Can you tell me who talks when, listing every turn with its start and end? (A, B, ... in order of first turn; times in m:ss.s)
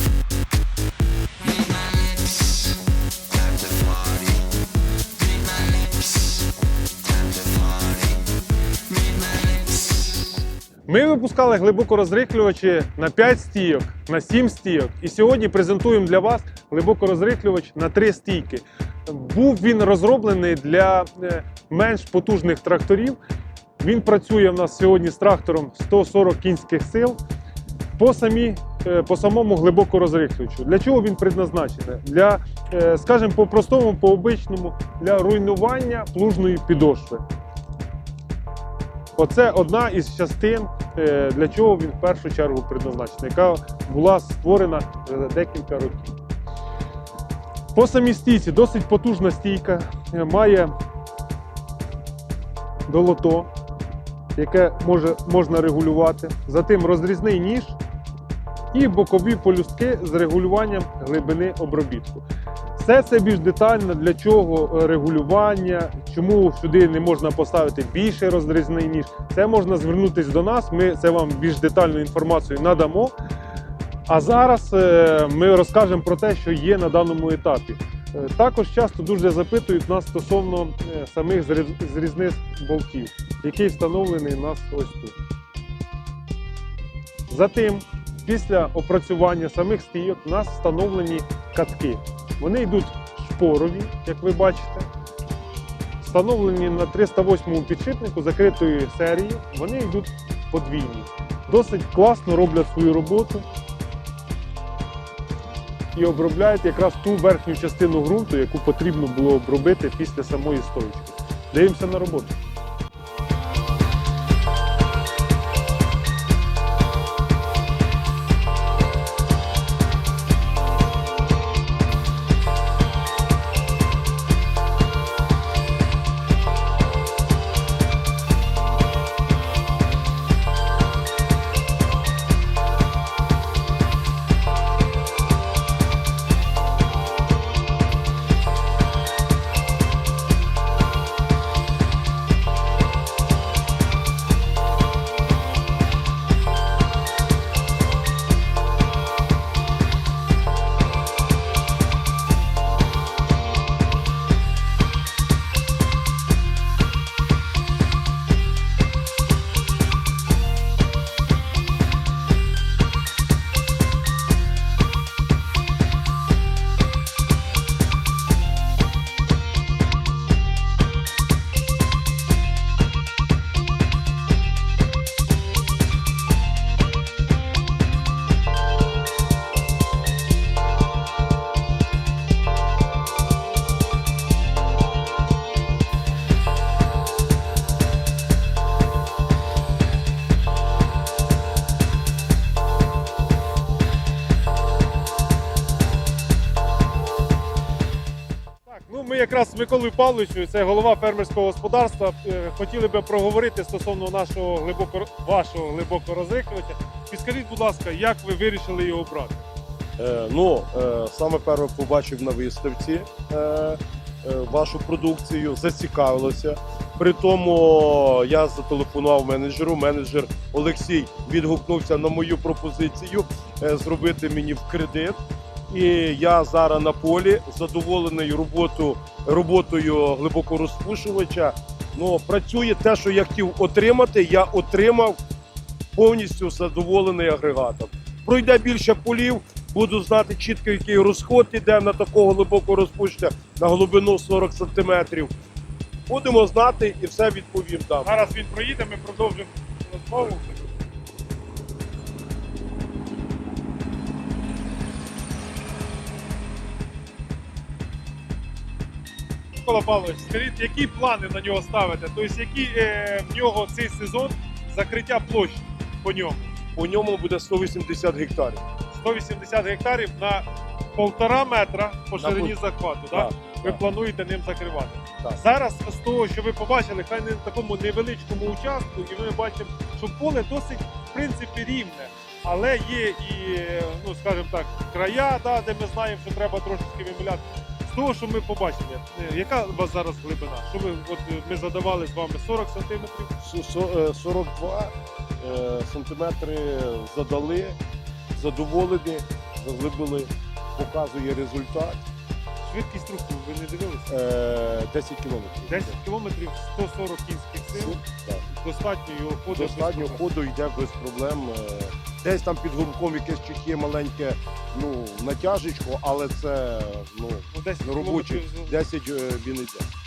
0:10.9-0:23.2 A
0:23.8-0:27.2 A
0:28.0-0:37.2 A
0:39.2-0:46.2 A
0:47.7-0:50.7 A
0:52.9-0:53.5 A
0:54.4-0:57.8 A
0:58.7-1:02.2 A
1:02.8-1:13.1 A
1:14.1-1:25.2 A
1:27.3-1:34.9 A
1:36.0-1:43.4 A
1:45.9-1:52.3 A
3:18.6-3:29.4 A
3:30.0-3:45.2 B
3:45.7-3:55.2 B
3:55.9-4:05.3 B
4:06.1-4:08.2 B
4:08.0-4:10.6 A
4:19.6-4:26.5 A
4:26.7-4:28.6 B
4:28.9-4:53.3 A
4:32.2-4:32.6 B
4:33.1-4:33.8 B
4:53.4-4:57.8 B
4:58.3-5:02.0 B
5:02.6-5:04.1 A
5:04.1-5:06.0 B
5:05.7-5:08.0 A
5:07.7-5:08.4 B
5:08.5-5:10.2 A
5:09.5-5:19.9 B
5:17.5-5:18.8 A